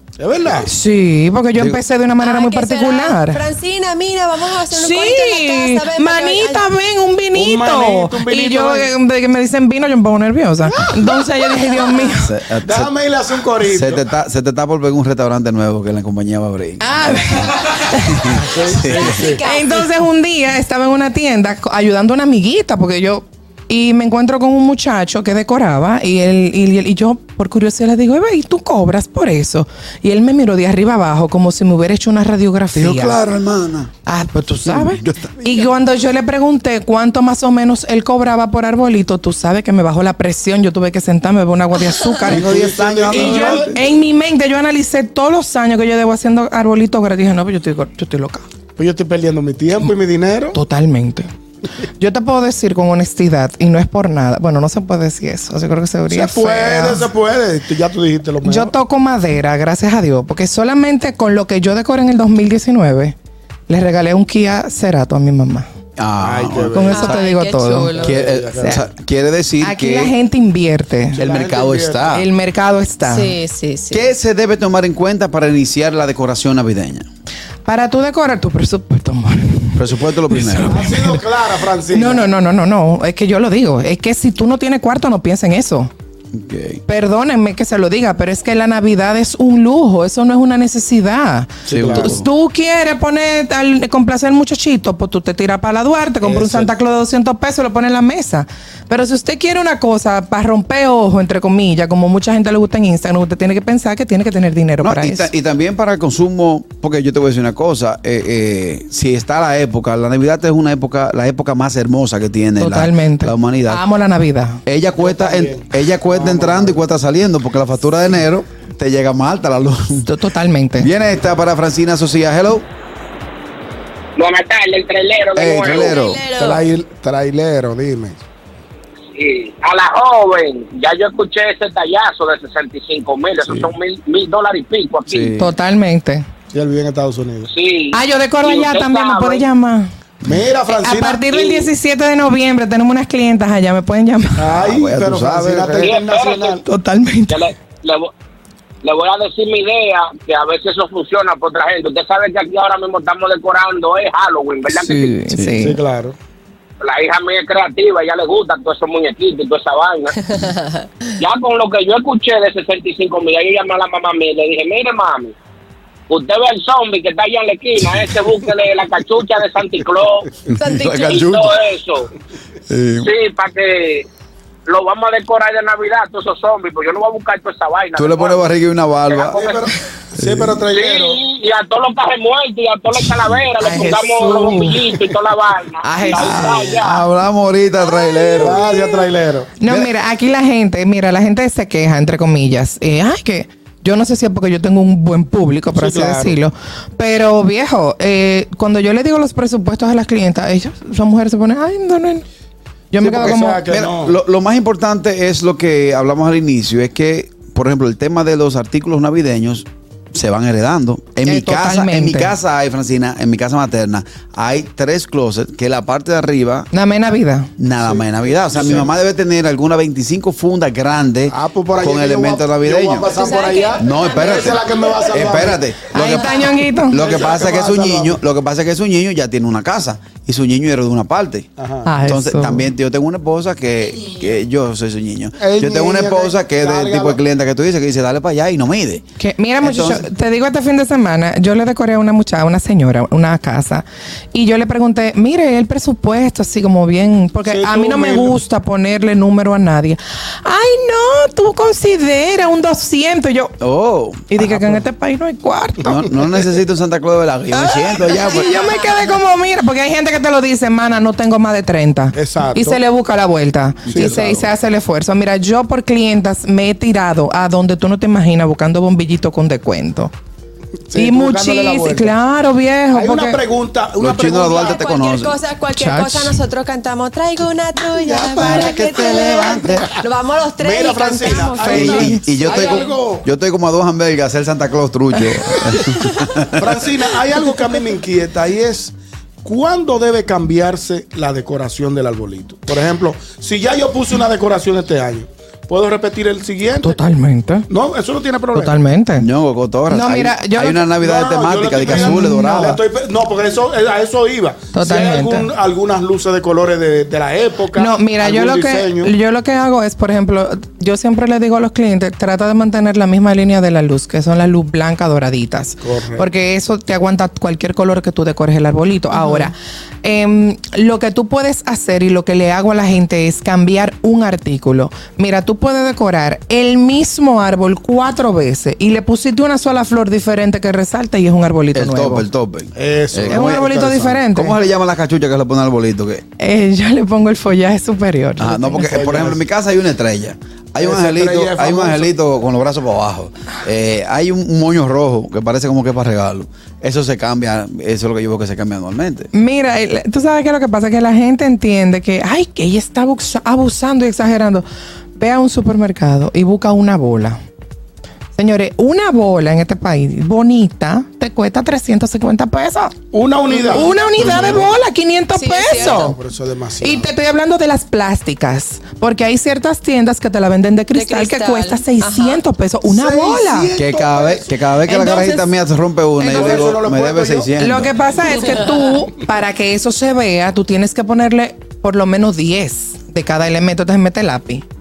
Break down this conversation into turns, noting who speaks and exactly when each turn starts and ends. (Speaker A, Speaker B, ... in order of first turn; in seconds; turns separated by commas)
Speaker A: 0.2-0.7, Speaker B: 0.6-3.4, Speaker C: 1.5-1.8, Speaker D: 2.2-6.7, Speaker B: 4.7-12.3, Speaker A: 7.3-8.9, Speaker D: 11.8-12.1, Speaker C: 12.2-12.9, Speaker A: 12.7-14.0, Speaker C: 13.7-19.2, Speaker B: 16.8-18.3, Speaker A: 18.3-19.4, Speaker D: 18.8-19.9, Speaker B: 19.4-33.2, Speaker C: 32.7-33.9, Speaker B: 34.0-42.5, Speaker C: 34.6-35.3, Speaker A: 42.2-43.7, Speaker C: 42.2-43.8, Speaker B: 43.1-48.5, Speaker A: 48.8-50.6, Speaker B: 50.5-51.2, Speaker B: 52.0-57.1, Speaker A: 56.1-58.7, Speaker B: 58.4-63.1, Speaker B: 63.7-65.7, Speaker C: 66.0-67.2, Speaker A: 66.2-67.0, Speaker B: 66.7-67.9, Speaker D: 66.9-68.1, Speaker A: 67.9-68.8, Speaker C: 68.0-70.1, Speaker B: 69.6-71.2, Speaker C: 71.2-72.2, Speaker A: 71.2-72.2, Speaker B: 72.1-73.4, Speaker D: 73.0-74.1, Speaker C: 73.9-77.1, Speaker B: 77.7-79.8, Speaker C: 79.8-80.8, Speaker B: 80.3-81.2, Speaker A: 80.7-82.3, Speaker B: 81.9-85.9, Speaker C: 86.3-86.8, Speaker B: 86.9-105.3, Speaker A: 91.7-92.2, Speaker C: 91.7-92.2, Speaker A: 96.2-96.7, Speaker C: 104.8-113.8, Speaker B: 112.6-114.6, Speaker C: 114.7-120.1, Speaker A: 115.0-116.8, Speaker B: 120.0-120.9, Speaker C: 120.7-122.6, Speaker E: 124.2-126.0, Speaker C: 125.3-126.2, Speaker D: 125.7-126.6, Speaker A: 126.3-128.2, Speaker E: 129.1-135.3, Speaker C: 135.1-135.5, Speaker B: 135.4-136.2, Speaker A: 136.5-137.5, Speaker E: 137.5-139.4, Speaker B: 137.9-139.9, Speaker A: 140.2-141.3, Speaker B: 140.7-144.5, Speaker E: 141.3-141.7, Speaker A: 144.4-146.6, Speaker C: 144.5-145.9, Speaker E: 145.8-146.6, Speaker B: 146.6-147.5, Speaker E: 147.3-148.1, Speaker E: 148.8-155.1, Speaker B: 154.7-155.8, Speaker C: 155.3-155.7, Speaker A: 155.6-156.2, Speaker E: 156.8-160.2, Speaker D: 160.3-160.9, Speaker E: 161.2-165.3, Speaker E: 166.1-170.3, Speaker D: 170.5-171.3, Speaker C: 170.6-171.6, Speaker E: 171.0-172.1, Speaker C: 172.7-173.1, Speaker E: 173.0-174.0, Speaker E: 174.7-178.4, Speaker C: 177.9-179.4, Speaker E: 179.1-179.7, Speaker A: 179.3-181.2, Speaker C: 180.2-180.6, Speaker E: 180.7-187.0, Speaker B: 183.6-184.8, Speaker B: 185.8-186.6, Speaker C: 186.1-188.6, Speaker D: 187.9-189.1, Speaker A: 188.3-189.5, Speaker B: 189.6-202.2, Speaker C: 189.6-189.9, Speaker A: 195.7-196.4, Speaker B: 202.9-203.7, Speaker A: 203.0-204.2, Speaker C: 203.2-216.7, Speaker B: 211.2-212.3, Speaker B: 216.7-217.5, Speaker C: 217.6-223.1, Speaker A: 217.8-218.9, Speaker A: 221.3-225.7, Speaker D: 223.0-225.2, Speaker C: 223.8-231.5, Speaker B: 225.9-227.0, Speaker A: 226.9-228.2, Speaker A: 231.6-231.9, Speaker B: 231.8-232.7, Speaker C: 232.0-239.0, Speaker A: 235.4-237.2, Speaker B: 239.2-253.5, Speaker C: 239.6-240.1, Speaker A: 247.4-248.4, Speaker C: 253.6-254.3, Speaker B: 254.3-256.1, Speaker A: 254.4-254.8, Speaker C: 255.8-258.5, Speaker B: 257.5-270.1, Speaker A: 262.1-262.8, Speaker C: 263.9-264.5, Speaker A: 263.9-264.2, Speaker A: 270.9-272.1, Speaker B: 270.9-273.4, Speaker A: 272.9-274.8, Speaker C: 274.0-275.3, Speaker D: 274.6-282.9, Speaker B: 275.7-276.4, Speaker C: 278.2-280.0, Speaker A: 280.6-283.3, Speaker B: 281.4-282.3, Speaker C: 281.7-286.7, Speaker A: 286.5-297.0, Speaker B: 296.8-297.7, Speaker A: 297.7-298.7, Speaker B: 298.5-299.3, Speaker C: 299.2-302.8, Speaker B: 299.9-300.8, Speaker A: 301.0-309.1, Speaker B: 301.8-302.8, Speaker B: 304.7-305.5, Speaker B: 307.7-332.3, Speaker A: 315.8-316.2, Speaker D: 319.1-319.5, Speaker C: 331.7-336.2, Speaker A: 332.7-334.2, Speaker B: 333.3-334.5, Speaker B: 336.4-339.2, Speaker C: 338.4-349.3, Speaker A: 338.9-339.4, Speaker A: 340.8-342.1, Speaker B: 349.3-354.6, Speaker B: 355.1-357.4, Speaker B: 358.4-362.9, Speaker A: 363.1-364.7, Speaker D: 363.5-364.6, Speaker B: 363.7-366.1, Speaker D: 365.3-366.1, Speaker A: 365.8-367.1, Speaker B: 366.8-373.7, Speaker D: 370.9-372.4, Speaker A: 372.8-374.6, Speaker C: 373.8-377.9, Speaker D: 374.9-375.5, Speaker A: 376.2-377.5, Speaker D: 376.3-376.7, Speaker B: 377.6-384.6, Speaker D: 378.2-378.9